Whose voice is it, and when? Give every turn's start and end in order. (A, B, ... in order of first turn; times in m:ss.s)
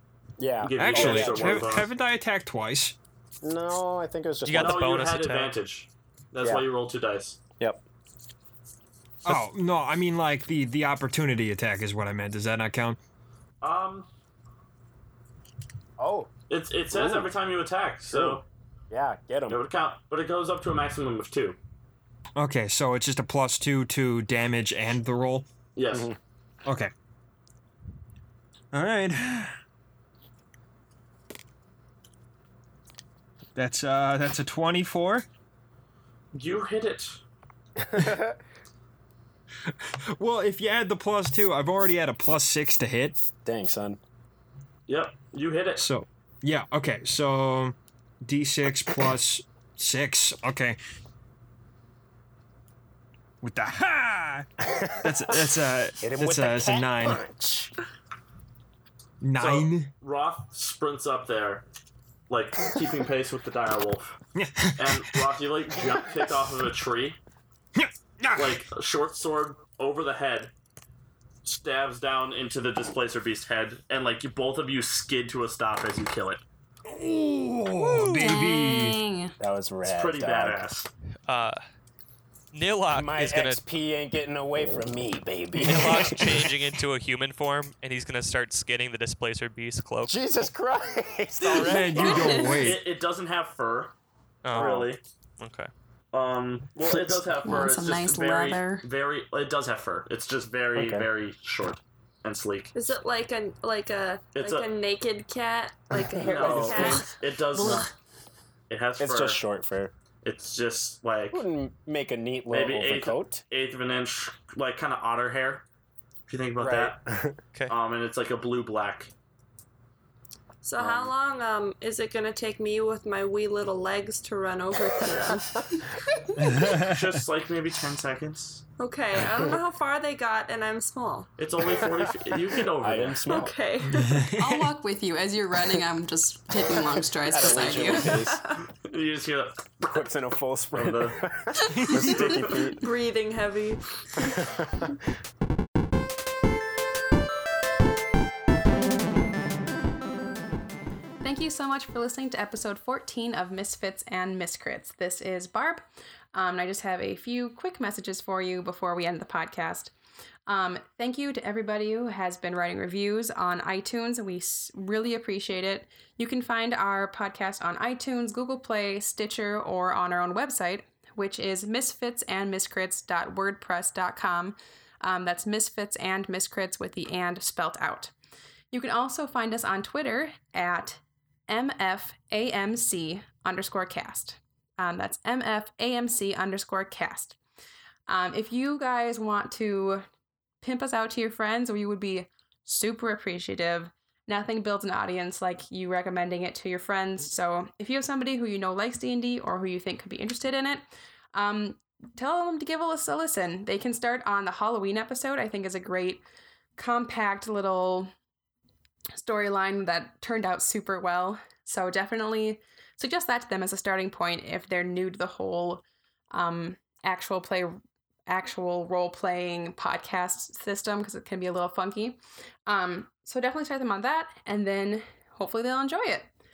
0:00.4-0:01.8 A
0:00.6-0:01.9 B
0:00.8-0:03.0 C
0:03.4-0:04.9 A
0:04.5-0:05.5 D
0:04.6-0:07.4 B
0:06.4-0:06.7 A
0:07.6-0:07.8 A
0:09.2-0:13.0 C
0:13.6-0:14.1 B
0:16.0-0:16.3 A
0:16.5-0:18.4 B
0:16.9-0:17.3 A
0:18.1-0:19.6 A
0:19.5-0:21.6 B
0:22.4-0:25.5 C
0:25.8-0:26.1 B
0:25.9-0:26.2 A
0:26.6-0:26.9 C
0:28.7-0:29.6 C
0:33.6-0:35.2 C
0:36.3-0:37.2 B
0:37.8-0:38.4 A
0:39.7-0:43.2 C
0:43.4-0:44.0 A
0:44.9-0:45.8 B
0:45.8-0:50.8 C
0:53.4-0:57.2 C
0:54.6-0:55.4 A
0:56.0-0:57.7 A
0:59.2-0:59.9 C
0:59.4-1:01.6 B
1:02.3-1:04.1 B
1:04.4-1:05.2 C
1:04.8-1:07.2 B
1:07.8-1:08.6 C
1:08.4-1:10.5 B
1:11.4-1:16.4 B
1:16.9-1:19.0 C
1:17.8-1:19.4 E
1:19.4-1:20.6 A
1:19.8-1:20.9 B
1:21.3-1:21.6 D
1:22.5-1:23.6 D
1:22.9-1:26.5 A
1:25.6-1:30.2 D
1:25.7-1:26.0 C
1:30.1-1:32.4 A
1:31.6-1:32.9 C
1:32.0-1:33.9 B
1:32.2-1:32.6 E
1:34.4-1:35.7 D
1:34.5-1:35.0 B
1:34.5-1:34.9 A
1:36.1-1:42.7 B
1:37.0-1:38.9 E
1:40.8-1:41.1 A
1:42.8-1:47.1 F
1:44.4-1:44.7 B
1:45.9-1:47.1 A
1:46.2-1:47.9 B
1:47.5-1:47.9 E
1:48.7-1:49.4 B
1:49.0-1:49.9 A
1:50.2-1:51.4 B
1:51.3-1:53.4 A
1:52.5-1:55.6 B
1:56.3-1:57.0 B
1:56.6-1:57.4 A
1:57.7-1:59.1 B
2:00.6-2:06.3 F
2:00.8-2:01.1 B
2:06.4-2:07.1 C
2:06.8-2:08.6 B
2:08.8-2:11.8 F
2:11.4-2:13.5 B
2:12.8-2:13.5 A
2:13.3-2:14.3 F
2:13.9-2:14.7 C
2:14.4-2:18.2 E
2:16.8-2:18.4 A
2:18.0-2:18.4 F
2:18.8-2:20.1 B
2:19.9-2:22.9 A
2:20.7-2:21.2 B
2:21.7-2:22.3 C
2:21.9-2:22.7 B
2:22.7-2:24.3 F
2:24.2-2:25.0 A
2:31.2-2:35.8 E
2:36.3-2:39.9 E
2:40.5-2:58.1 E
2:58.7-3:07.4 E
3:08.1-3:10.0 E
3:10.6-3:26.2 E
3:26.8-3:28.1 E
3:29.1-3:46.3 E